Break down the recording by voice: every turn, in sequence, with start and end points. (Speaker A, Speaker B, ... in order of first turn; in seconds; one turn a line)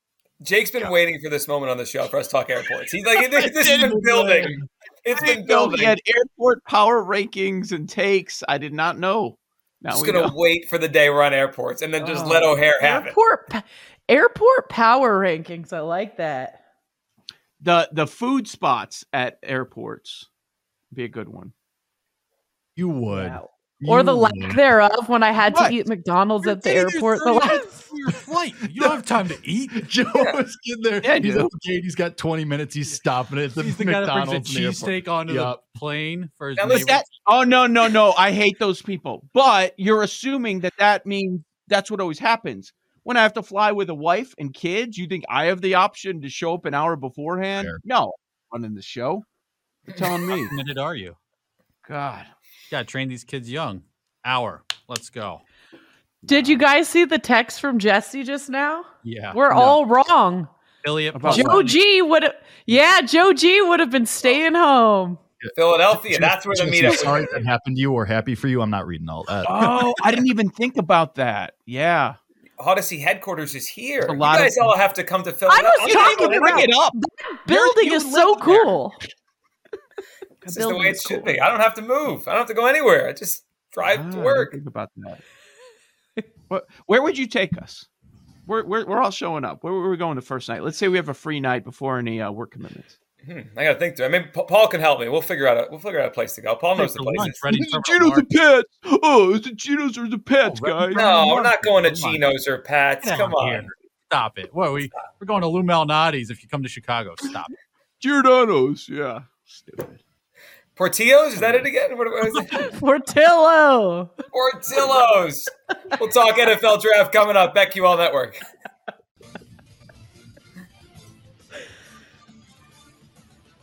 Speaker A: 0.4-6.0
Speaker B: 3.3-4.5
Speaker C: 3.9-4.6
Speaker B: 5.1-10.3
Speaker A: 9.9-13.2
Speaker B: 12.0-12.5
Speaker D: 12.6-16.6
Speaker B: 17.6-20.3
Speaker B: 20.9-21.5
Speaker E: 22.8-24.6
Speaker D: 23.1-27.8
Speaker B: 25.4-25.8
Speaker C: 26.4-29.9
Speaker E: 29.8-35.6
Speaker B: 31.0-31.5
Speaker C: 33.5-37.1
Speaker A: 36.6-37.0
Speaker B: 36.7-49.2
Speaker E: 47.5-47.8
Speaker B: 49.9-50.5
Speaker C: 50.3-51.2
Speaker B: 51.9-52.3
Speaker C: 52.7-55.4
Speaker B: 56.2-56.6
Speaker D: 56.3-60.5
Speaker C: 59.0-59.4
Speaker B: 59.5-59.8
Speaker C: 60.8-61.9
Speaker B: 61.1-61.7
Speaker D: 61.2-65.2
Speaker E: 65.4-70.2
Speaker A: 65.5-67.3
Speaker B: 69.5-72.2
Speaker A: 72.6-76.6
Speaker B: 74.0-74.8
Speaker D: 75.5-79.0
Speaker B: 75.8-78.8
Speaker D: 80.4-81.4
Speaker A: 80.4-84.6
Speaker B: 83.8-85.2
Speaker B: 86.5-87.9
Speaker B: 88.5-93.0
Speaker A: 93.2-97.4
Speaker C: 96.8-98.3
Speaker B: 97.5-101.2
Speaker C: 100.4-102.3
Speaker A: 101.0-103.7
Speaker C: 103.0-107.5
Speaker B: 108.0-110.0
Speaker A: 110.8-112.6
Speaker B: 111.4-111.6
Speaker D: 112.5-114.1
Speaker A: 114.3-118.4